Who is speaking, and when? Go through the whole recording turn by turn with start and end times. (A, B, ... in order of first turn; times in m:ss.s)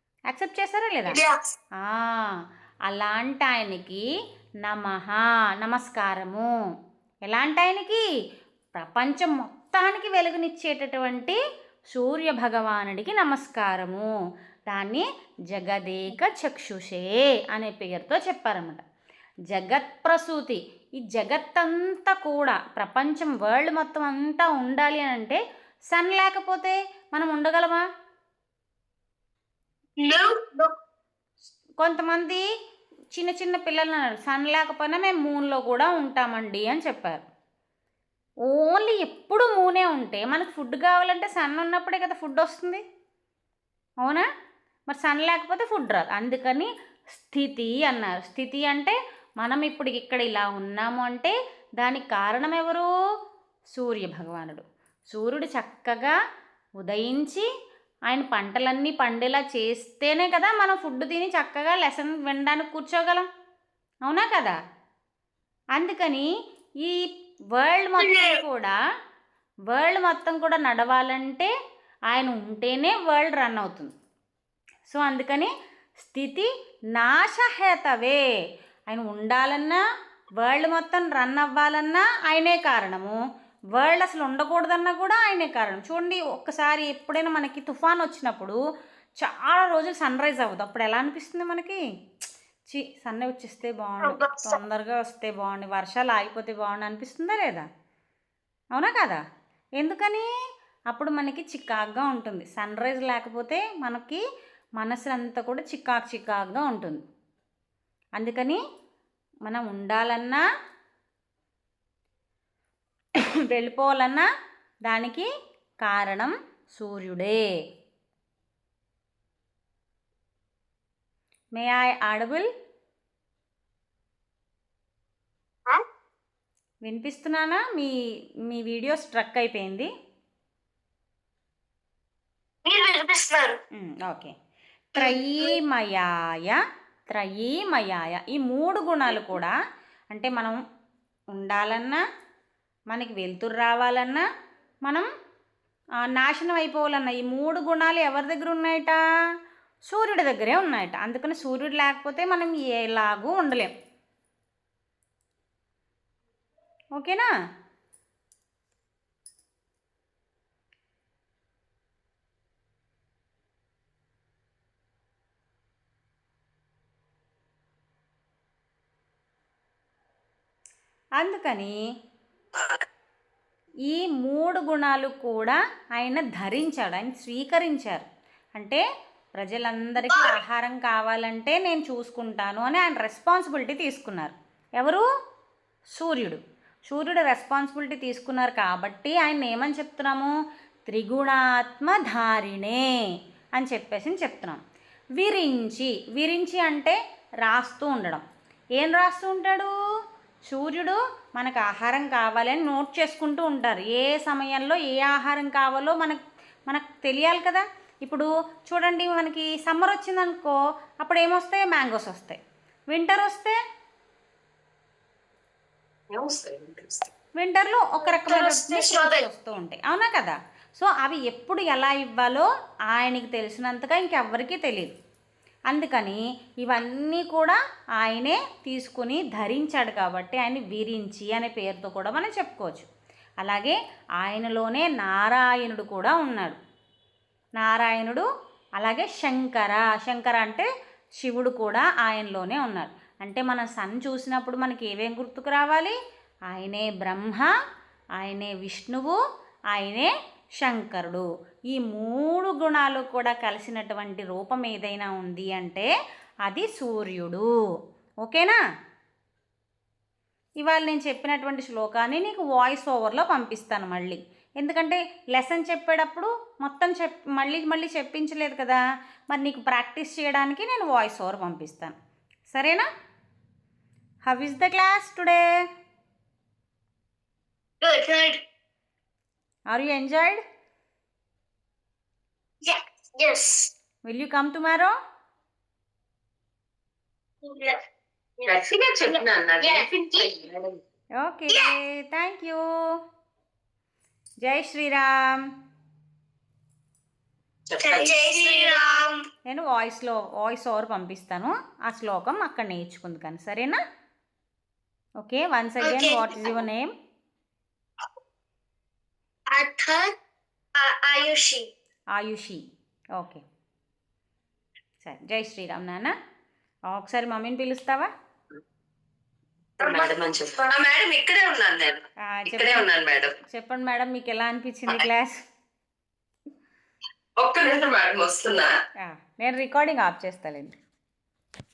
0:00.3-0:01.2 A
0:01.1-0:01.4 B
0:01.8-0:02.3 A
0:02.9-0:04.0 A
0:04.6-0:06.5 A
0:07.3-0:08.0 A
0:08.7-0:11.4 A
0:11.9-0:14.1 A
0:14.7-0:18.8 A
0:19.5-0:25.4 A
0:25.9-0:27.8 A
0:30.0-0:30.7 B
0:31.8-0:32.4 A
0:33.1-0:37.2 A
0:38.5-0:42.8 A
0:44.9-0:52.9 A
0:53.7-0:56.2 A
0:56.8-0:57.4 A
0:58.1-1:03.3 A
1:04.0-1:04.6 A
1:05.8-1:06.3 A
1:06.8-1:08.8 A
1:08.0-1:08.4 B
1:09.7-1:11.5 A
1:12.1-1:13.9 A
1:14.9-1:15.5 A
1:16.0-1:18.2 A
1:18.9-1:19.8 A
1:20.4-1:23.2 A
1:23.7-1:28.6 A
1:29.2-1:31.8 A
1:32.7-1:37.6 A
1:34.0-1:34.6 B
1:38.7-1:39.2 A
1:39.8-1:40.3 A
1:40.9-1:44.2 A
1:44.8-1:47.0 A
1:48.2-1:48.6 A
1:49.4-1:50.4 A
1:53.5-1:54.3 A
1:54.9-1:55.3 A
1:55.8-1:57.4 A
2:01.5-2:02.5 A
2:06.8-2:07.9 A
2:08.5-2:09.9 A
2:12.6-2:13.6 B
2:13.8-2:14.3 A
2:15.0-2:15.5 B
2:15.0-2:16.6 A
2:17.1-2:19.5 A
2:20.1-2:20.6 A
2:21.3-2:22.0 A
2:22.9-2:24.2 A
2:26.2-2:29.0 A
2:29.9-2:33.7 A
2:37.0-2:37.3 A
2:51.2-2:51.7 A
2:53.9-2:58.0 A
2:59.4-3:05.0 A
3:00.1-3:00.4 B
3:06.0-3:10.3 A
3:10.9-3:12.8 A
3:13.6-3:14.6 A
3:15.2-3:18.2 A
3:18.8-3:19.7 A
3:20.5-3:32.4 A
3:32.9-3:33.6 A
3:36.1-3:37.1 C
3:37.4-3:44.9 A
3:38.1-3:39.2 B
3:45.7-3:52.9 A
3:53.4-3:56.6 A
3:57.6-3:58.2 A
3:58.8-4:00.7 A
4:01.2-4:05.9 A
4:06.5-4:07.5 A
4:08.2-4:09.2 A
4:09.7-4:15.9 A
4:16.5-4:17.5 A
4:18.2-4:18.6 A
4:20.6-4:28.8 A
4:29.3-4:31.9 A
4:32.5-4:32.8 A
4:34.2-4:35.4 A
4:37.8-4:38.4 B
4:39.7-4:40.4 A
4:42.6-4:43.7 B
4:44.1-4:44.9 A
4:47.4-4:47.8 B
4:48.4-4:50.2 B
4:48.5-4:50.8 C
4:51.2-4:52.6 A
4:54.4-4:55.4 A
4:57.7-4:58.8 C
4:57.8-4:59.2 B
4:59.5-5:03.8 A
5:05.2-5:06.9 A
5:05.8-5:06.6 B
5:09.5-5:10.1 B
5:10.8-5:11.7 B
5:12.2-5:12.6 A
5:13.2-5:13.4 A
5:15.0-5:16.1 A
5:16.9-5:18.1 A
5:19.8-5:23.3 C
5:19.8-5:20.1 B
5:22.3-5:22.8 A
5:23.5-5:25.4 A
5:27.4-5:28.7 C
5:29.0-5:30.8 A